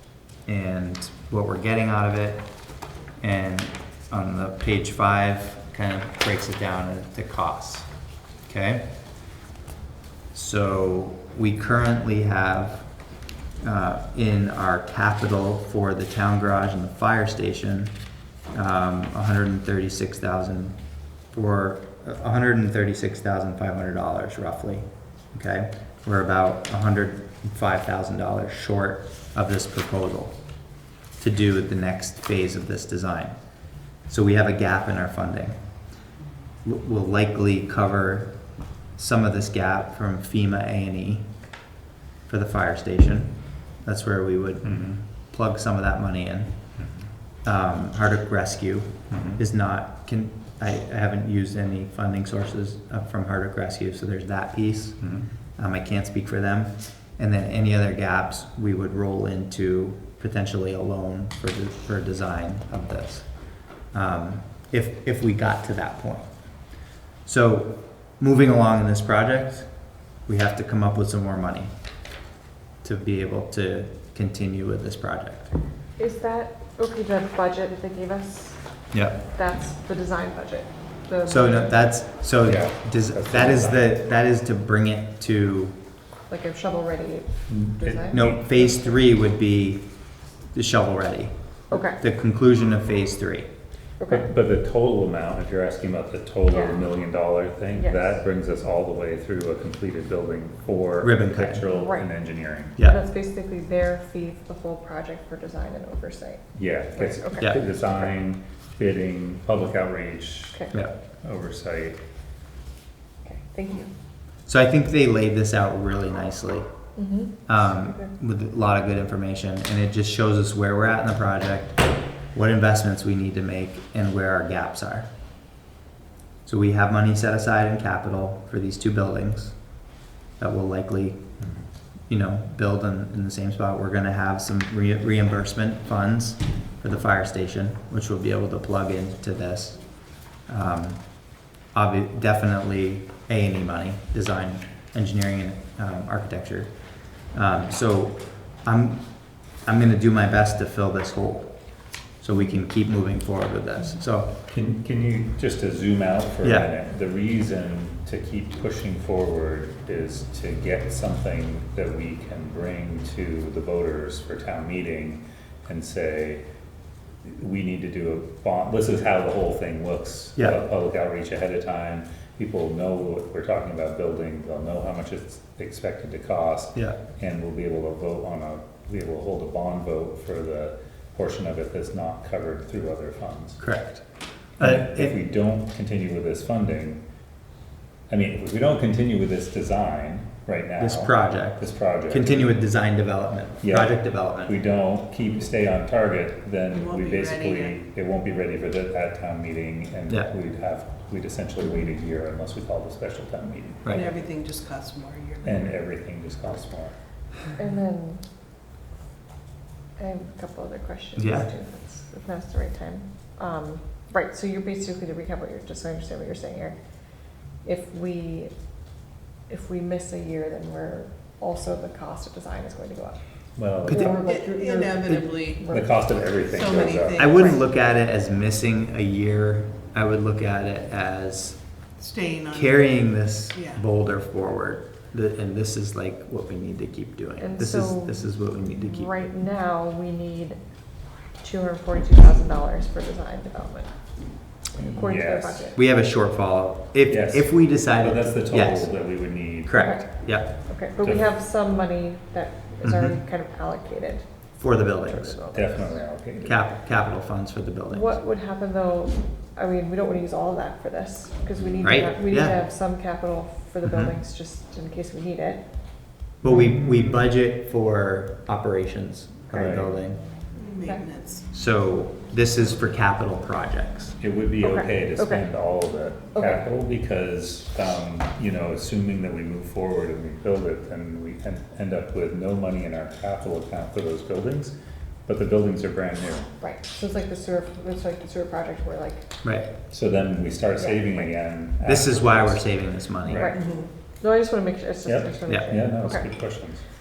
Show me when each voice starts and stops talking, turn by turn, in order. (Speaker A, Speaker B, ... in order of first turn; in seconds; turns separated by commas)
Speaker A: 0.5-2.5, Speaker A: 3.2-7.9, Speaker A: 8.5-8.8, Speaker A: 10.3-12.9, Speaker A: 13.6-17.9, Speaker A: 18.5-20.8, Speaker A: 21.3-30.4, Speaker A: 31.2-33.4, Speaker A: 34.0-35.6, Speaker A: 36.6-38.4, Speaker A: 39.0-41.4, Speaker A: 42.3-46.7, Speaker B: 44.6-45.0, Speaker B: 46.8-47.1, Speaker A: 47.4-66.3, Speaker B: 49.1-49.4, Speaker B: 55.0-55.3, Speaker A: 67.2-71.7, Speaker A: 72.8-75.5, Speaker C: 76.0-78.6, Speaker A: 78.9-79.2, Speaker C: 79.2-81.8, Speaker A: 81.3-85.8, Speaker B: 82.5-83.9, Speaker C: 86.3-88.8, Speaker B: 87.5-88.4, Speaker A: 88.1-89.8, Speaker A: 90.5-93.5, Speaker C: 91.7-92.0, Speaker C: 94.0-94.3, Speaker B: 94.1-102.8, Speaker C: 96.5-96.8, Speaker C: 97.8-98.2, Speaker A: 101.0-101.7, Speaker C: 101.7-102.1, Speaker C: 102.7-107.5, Speaker B: 106.5-112.0, Speaker C: 113.2-113.9, Speaker A: 114.5-116.7, Speaker C: 117.0-118.1, Speaker A: 117.5-125.1, Speaker A: 126.5-129.8, Speaker A: 130.4-131.2, Speaker B: 131.4-131.7, Speaker A: 132.1-154.4, Speaker B: 154.5-166.4, Speaker A: 156.4-156.7, Speaker B: 167.2-183.6, Speaker A: 183.6-184.0, Speaker A: 184.6-185.2, Speaker B: 184.6-187.0, Speaker B: 188.1-192.5, Speaker A: 190.8-194.6, Speaker B: 193.6-203.8, Speaker D: 196.7-197.8, Speaker A: 203.8-204.1, Speaker D: 203.9-205.8, Speaker B: 205.4-206.9, Speaker C: 207.6-208.2, Speaker C: 210.0-216.8, Speaker A: 211.2-211.5, Speaker C: 217.6-218.5, Speaker C: 219.5-223.2, Speaker B: 223.6-224.2, Speaker A: 223.9-224.1, Speaker C: 223.9-225.9, Speaker D: 224.2-225.8, Speaker B: 225.7-227.3, Speaker D: 226.5-227.6, Speaker A: 227.2-231.6, Speaker D: 232.0-233.0, Speaker A: 232.5-239.1, Speaker D: 233.5-233.8, Speaker C: 237.4-240.6, Speaker C: 241.4-243.9, Speaker C: 244.9-245.8, Speaker B: 244.9-245.7, Speaker A: 245.8-249.0, Speaker B: 247.1-249.8, Speaker A: 249.7-250.5, Speaker C: 249.8-255.9, Speaker A: 252.8-253.2, Speaker A: 254.6-255.4, Speaker B: 255.5-256.6, Speaker A: 256.4-258.2, Speaker C: 257.9-265.6, Speaker A: 261.8-262.6, Speaker A: 263.9-264.2, Speaker A: 266.4-270.2, Speaker B: 269.5-269.9, Speaker D: 270.6-271.5, Speaker A: 271.5-274.2, Speaker B: 274.2-284.7, Speaker C: 274.6-275.4, Speaker C: 276.4-276.6, Speaker B: 285.3-286.5, Speaker C: 286.6-289.3, Speaker A: 289.4-289.7, Speaker B: 289.9-292.6, Speaker A: 291.9-293.5, Speaker B: 293.2-293.6, Speaker C: 293.3-296.3, Speaker D: 293.5-293.9, Speaker B: 295.1-296.8